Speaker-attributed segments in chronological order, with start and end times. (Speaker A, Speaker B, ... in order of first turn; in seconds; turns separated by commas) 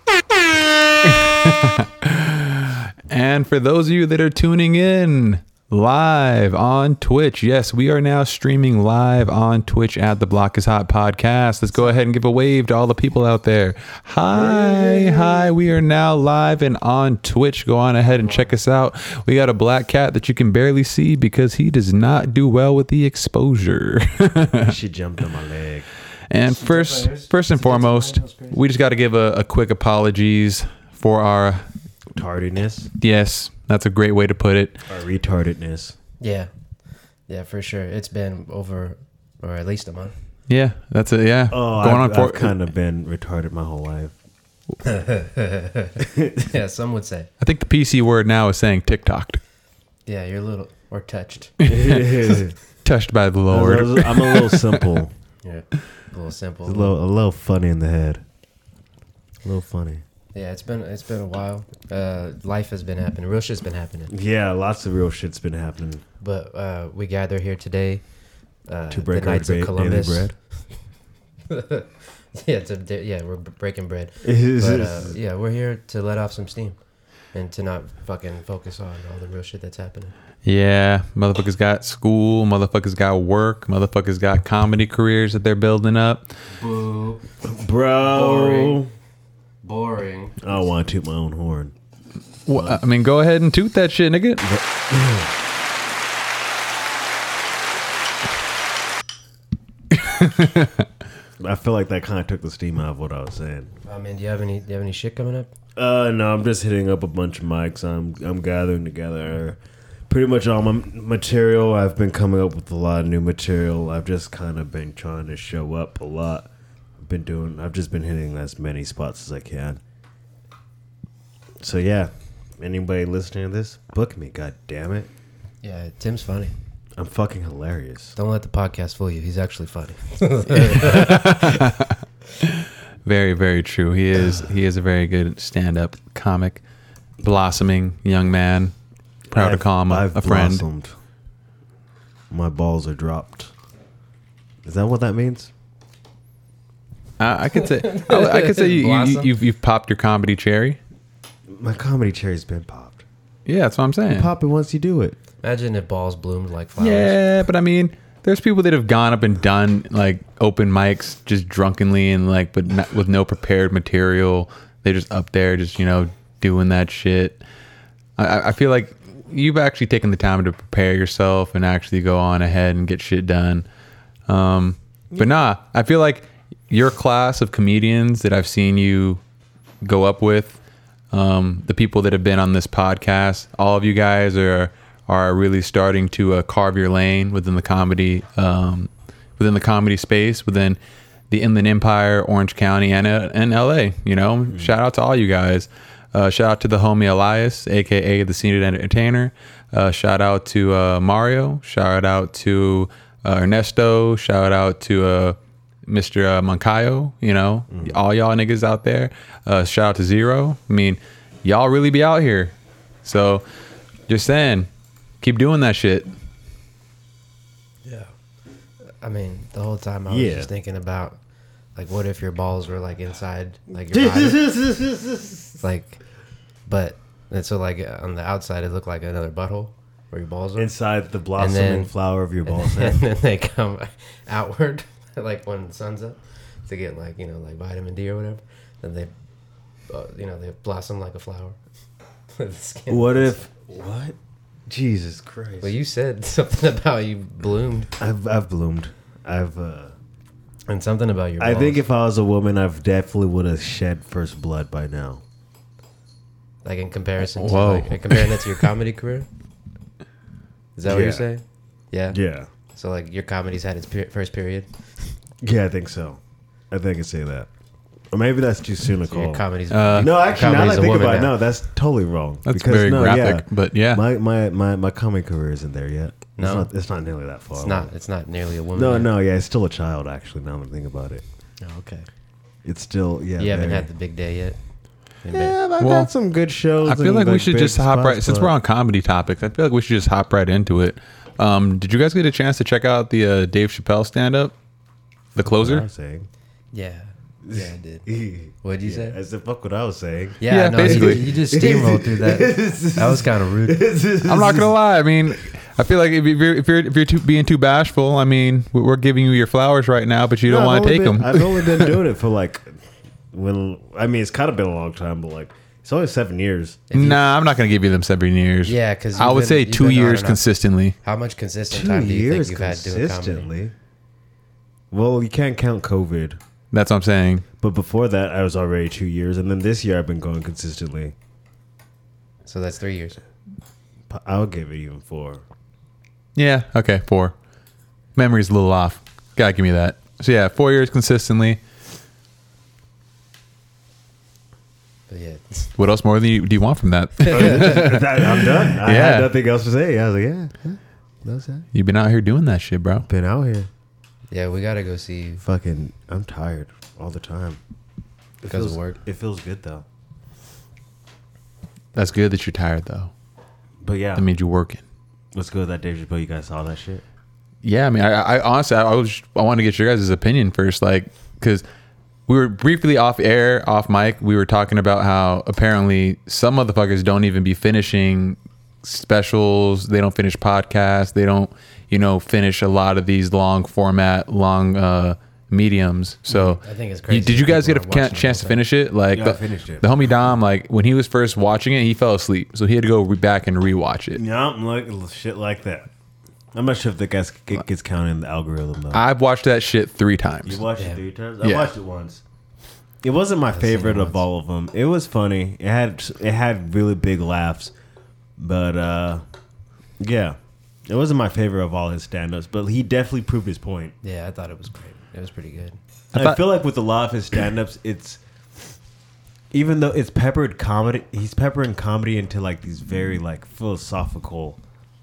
Speaker A: 1.0-24.7, Speaker B: 14.3-15.5, Speaker C: 18.1-18.5, Speaker B: 24.6-25.9, Speaker A: 26.3-31.6, Speaker C: 26.5-28.6, Speaker B: 32.1-32.9, Speaker A: 33.0-34.8, Speaker B: 34.9-35.9, Speaker C: 36.2-36.5, Speaker C: 37.3-40.1, Speaker A: 40.5-42.5, Speaker B: 41.5-44.1, Speaker C: 44.8-47.3, Speaker B: 46.0-46.5, Speaker A: 47.4-49.4, Speaker C: 50.0-51.5, Speaker A: 51.6-55.0, Speaker B: 51.6-52.5, Speaker B: 53.5-55.1, Speaker C: 55.4-56.9, Speaker B: 56.6-58.2, Speaker B: 59.4-60.0, Speaker C: 60.3-64.1, Speaker B: 64.1-66.0, Speaker C: 66.2-68.0, Speaker C: 68.7-70.3, Speaker B: 68.9-70.3, Speaker C: 71.5-76.8, Speaker B: 74.2-75.1, Speaker C: 77.3-80.1, Speaker A: 80.4-86.3, Speaker C: 86.5-87.2, Speaker B: 87.4-88.9, Speaker C: 88.0-88.8, Speaker C: 89.6-90.6, Speaker B: 90.4-91.7, Speaker A: 92.5-94.4, Speaker B: 92.5-92.8, Speaker B: 94.4-95.3, Speaker A: 99.9-100.8, Speaker B: 101.4-103.7, Speaker C: 103.8-105.5, Speaker B: 105.8-119.8, Speaker B: 121.6-125.1, Speaker C: 125.6-126.5, Speaker B: 127.0-128.1, Speaker C: 128.2-131.6, Speaker A: 130.8-136.6, Speaker A: 137.2-138.7, Speaker A: 139.3-140.6, Speaker B: 139.3-140.9, Speaker B: 142.3-143.5, Speaker B: 144.6-145.5, Speaker A: 147.2-150.8, Speaker C: 147.6-149.3, Speaker B: 151.5-153.0, Speaker A: 153.4-154.3, Speaker B: 154.1-155.2, Speaker C: 155.4-157.2, Speaker A: 156.8-167.4, Speaker A: 168.2-173.7, Speaker A: 174.3-179.2, Speaker A: 179.8-180.6, Speaker A: 181.1-190.8, Speaker A: 191.3-212.5, Speaker B: 207.7-208.0, Speaker A: 213.0-213.4, Speaker A: 214.1-214.7, Speaker A: 215.2-216.1, Speaker C: 217.8-218.1, Speaker C: 219.0-221.2, Speaker B: 220.1-220.5, Speaker C: 221.8-224.4, Speaker B: 223.9-225.6, Speaker C: 225.6-226.0, Speaker C: 226.7-230.7, Speaker B: 230.6-233.0, Speaker C: 231.4-231.9, Speaker C: 232.4-239.1, Speaker C: 239.9-241.6, Speaker C: 242.3-243.4, Speaker B: 242.9-244.2, Speaker B: 244.7-245.7, Speaker C: 245.6-247.9, Speaker B: 248.0-249.9, Speaker C: 250.7-251.8, Speaker B: 251.4-255.2, Speaker C: 256.6-259.3, Speaker A: 257.3-258.6, Speaker C: 260.8-262.2, Speaker B: 260.8-261.2, Speaker B: 262.1-262.5, Speaker C: 262.7-265.1, Speaker B: 265.4-266.2, Speaker B: 266.7-267.5, Speaker B: 268.1-269.4, Speaker C: 269.1-271.4, Speaker A: 269.7-270.2, Speaker B: 269.9-277.9, Speaker A: 272.4-274.0, Speaker C: 276.4-276.7, Speaker C: 277.5-279.1, Speaker B: 278.7-281.2, Speaker C: 281.6-282.1, Speaker B: 282.6-283.9, Speaker C: 283.4-284.6, Speaker C: 285.2-285.6, Speaker B: 285.3-288.5, Speaker A: 285.8-286.1, Speaker A: 286.8-294.5, Speaker A: 295.3-295.9, Speaker B: 295.4-296.3, Speaker C: 296.7-298.1, Speaker B: 297.4-304.7, Speaker C: 298.6-299.2, Speaker C: 300.4-303.8, Speaker A: 300.5-301.3, Speaker A: 304.2-311.9, Speaker B: 310.4-312.8, Speaker B: 313.3-316.8, Speaker C: 316.9-317.2, Speaker A: 316.9-320.9, Speaker C: 318.6-320.4, Speaker C: 321.0-323.5, Speaker B: 321.7-323.7, Speaker B: 324.9-326.4, Speaker A: 326.7-327.4, Speaker B: 327.6-331.1, Speaker C: 332.4-333.2, Speaker B: 334.1-335.4, Speaker A: 336.4-337.3, Speaker A: 338.1-341.6, Speaker C: 345.1-345.7, Speaker A: 345.8-349.3, Speaker B: 347.3-351.6, Speaker A: 351.7-353.1, Speaker B: 353.1-353.7, Speaker C: 354.3-355.4, Speaker B: 355.4-357.6, Speaker B: 358.4-359.8, Speaker C: 358.5-358.9, Speaker A: 361.9-363.1, Speaker B: 363.8-364.2, Speaker A: 364.1-364.8, Speaker B: 365.3-367.0, Speaker A: 367.6-371.6, Speaker A: 372.3-394.2, Speaker C: 386.5-388.6, Speaker B: 389.1-389.9, Speaker B: 394.1-395.9, Speaker B: 396.5-399.0, Speaker A: 398.9-400.6, Speaker B: 400.4-402.2, Speaker A: 401.4-401.7, Speaker B: 403.0-407.7, Speaker C: 403.5-404.2, Speaker B: 408.4-409.2, Speaker B: 410.0-413.9, Speaker C: 414.0-415.8, Speaker A: 416.1-416.4, Speaker B: 416.1-418.2, Speaker B: 419.5-424.6